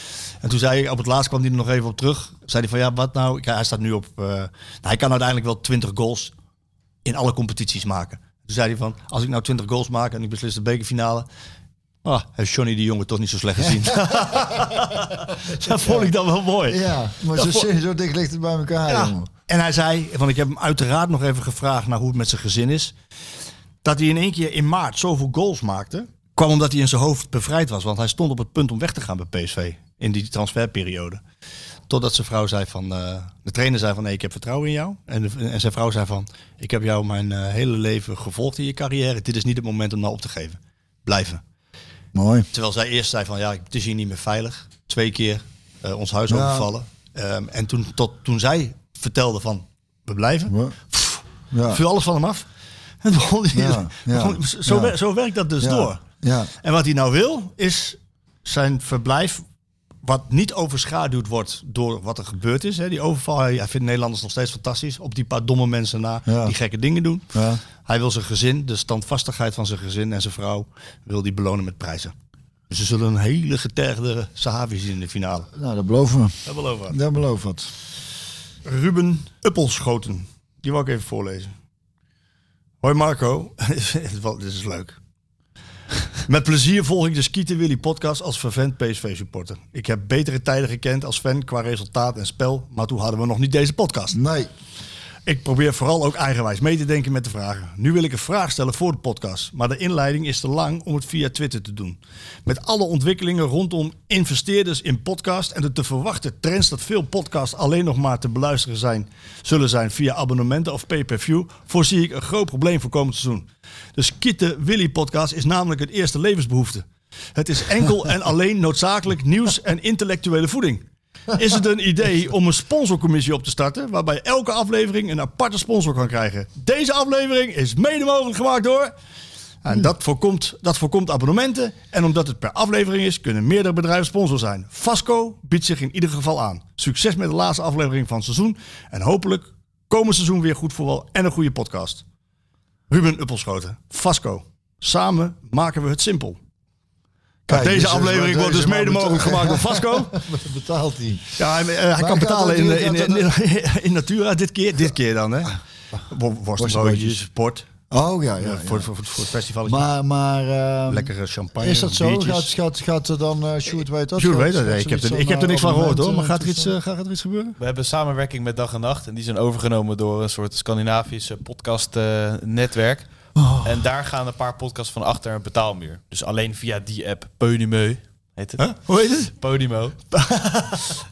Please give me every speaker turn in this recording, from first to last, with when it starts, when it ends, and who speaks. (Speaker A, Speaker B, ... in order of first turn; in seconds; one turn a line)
Speaker A: 0.4-6.3
Speaker A: 7.0-11.3
Speaker A: 12.0-17.7
Speaker B: 13.8-15.0
Speaker B: 15.5-16.1
Speaker B: 16.7-19.3
Speaker A: 18.9-22.9
Speaker A: 23.8-31.2
Speaker A: 31.9-41.4
Speaker B: 42.1-42.5
Speaker A: 42.5-52.5
Speaker B: 46.3-46.7
Speaker B: 50.5-50.8
Speaker B: 51.5-51.8
Speaker A: 53.0-56.0
Speaker B: 53.5-55.0
Speaker B: 55.6-56.5
Speaker A: 56.6-59.4
Speaker A: 60.0-67.3
Speaker B: 66.2-66.5
Speaker B: 67.3-67.6
Speaker A: 67.8-72.1
Speaker A: 72.7-75.5
Speaker B: 75.5-77.7
Speaker A: 76.5-77.0
Speaker A: 78.6-81.5
Speaker A: 82.8-85.0
Speaker A: 86.2-94.2
Speaker B: 94.1-94.5
Speaker A: 95.2-116.8
Speaker A: 117.3-128.9
Speaker A: 129.6-142.0
Speaker A: 142.9-146.4
Speaker A: 147.5-150.2
Speaker B: 147.5-153.3
Speaker A: 151.4-157.7
Speaker B: 156.6-157.2
Speaker B: 157.9-158.9
Speaker A: 158.4-159.8
Speaker B: 159.6-166.7
Speaker A: 160.9-162.5
Speaker A: 164.2-167.6
Speaker C: 167.6-173.1
Speaker B: 173.4-173.7
Speaker C: 173.6-178.7
Speaker A: 178.6-179.3
Speaker C: 179.3-180.0
Speaker A: 180.1-181.0